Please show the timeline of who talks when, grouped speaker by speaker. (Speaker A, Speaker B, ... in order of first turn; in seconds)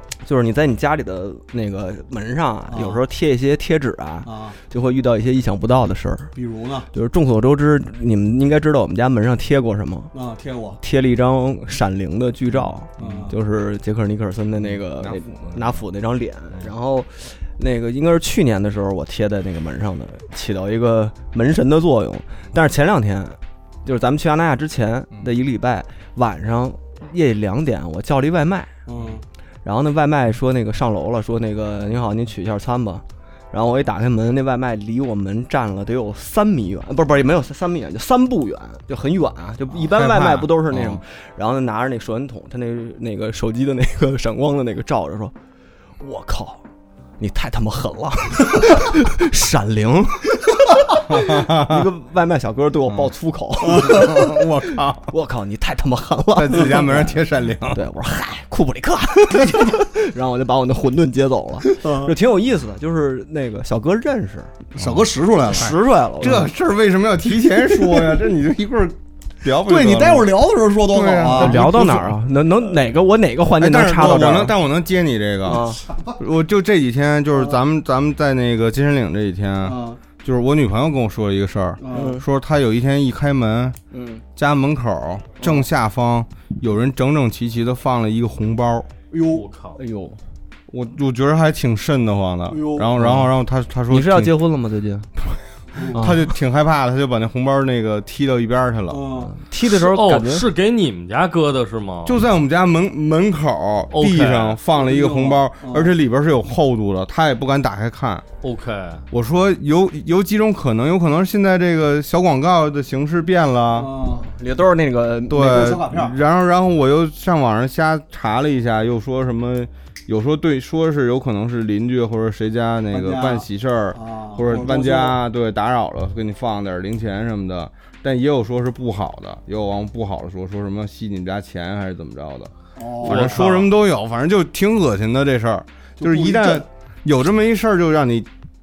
Speaker A: 0.2-6.3, 6.9-10.1, 10.8-28.7, 29.6-45.3, 46.0-46.6, 47.2-54.3, 55.1-64.6, 65.5-66.5, 71.3-74.5, 75.5-75.8, 81.9-82.2, 83.9-84.2, 89.8-90.2, 93.0-93.3, 93.9-95.1, 95.9-96.2, 99.3-100.4, 114.2-115.5
Speaker B: 2.7-3.0, 4.2-4.6, 6.3-6.9, 10.1-10.8, 13.0-13.3, 28.9-29.2, 53.6-54.4, 61.8-62.1, 64.7-65.7, 69.5-71.6, 75.5-76.1, 79.6-80.0, 81.8-82.1, 89.1-89.4, 92.5-93.0, 98.9-99.3, 104.7-105.9, 113.8-114.3, 115.3-116.1, 122.9-125.2, 132.8-133.3, 136.0-136.7
Speaker C: 13.0-13.3, 15.0-15.8, 39.8-41.0, 51.1-51.9, 53.8-55.1, 56.4-57.8, 64.8-65.1, 65.6-70.3, 70.8-72.2, 73.5-83.8, 84.3-88.9, 90.7-94.3, 95.9-99.1, 102.0-108.2, 109.1-113.9, 115.3-138.3
Speaker D: 89.3-89.8, 99.6-102.2, 103.9-104.6, 108.4-109.0, 133.0-133.7